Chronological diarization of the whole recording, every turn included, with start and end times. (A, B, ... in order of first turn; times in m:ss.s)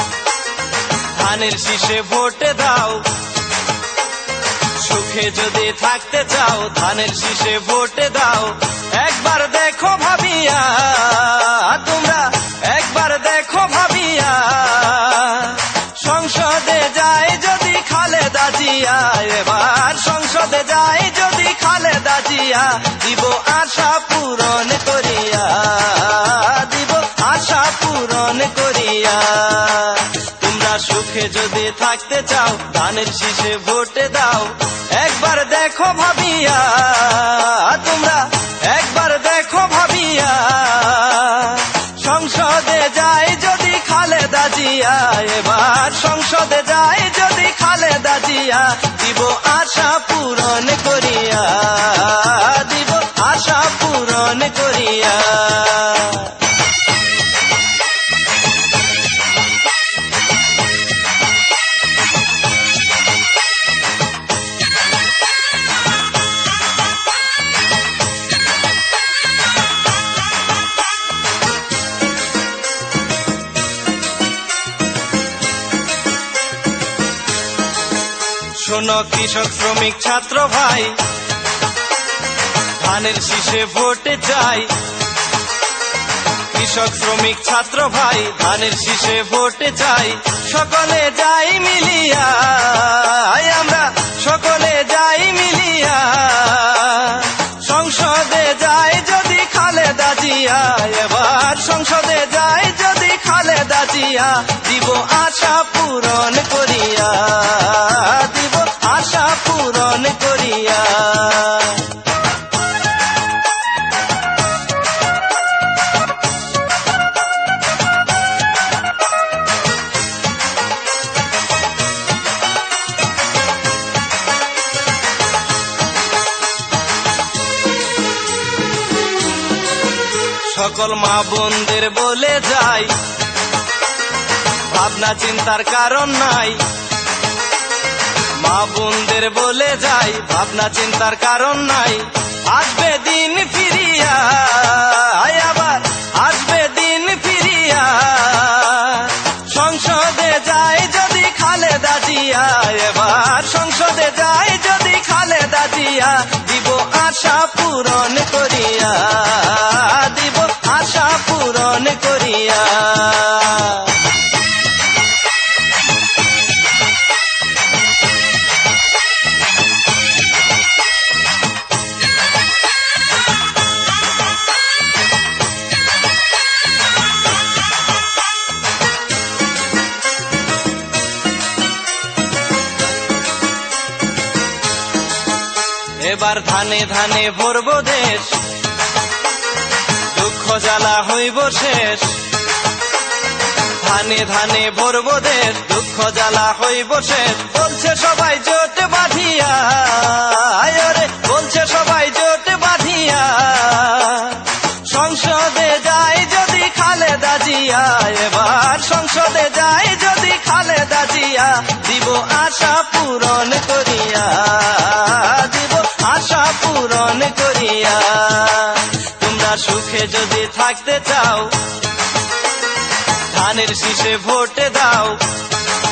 0:01.0-0:03.3 A
0:04.7-0:56.5 A
1:18.5-1:21.1 A
1:22.8-1:24.9 A
1:26.5-1:52.0 A
2:10.4-2:13.1 A
2:14.6-2:16.7 A
2:18.4-2:44.0 A
3:06.0-3:08.6 A
3:10.0-3:12.3 A
3:13.8-3:41.8 A
3:43.3-3:45.4 A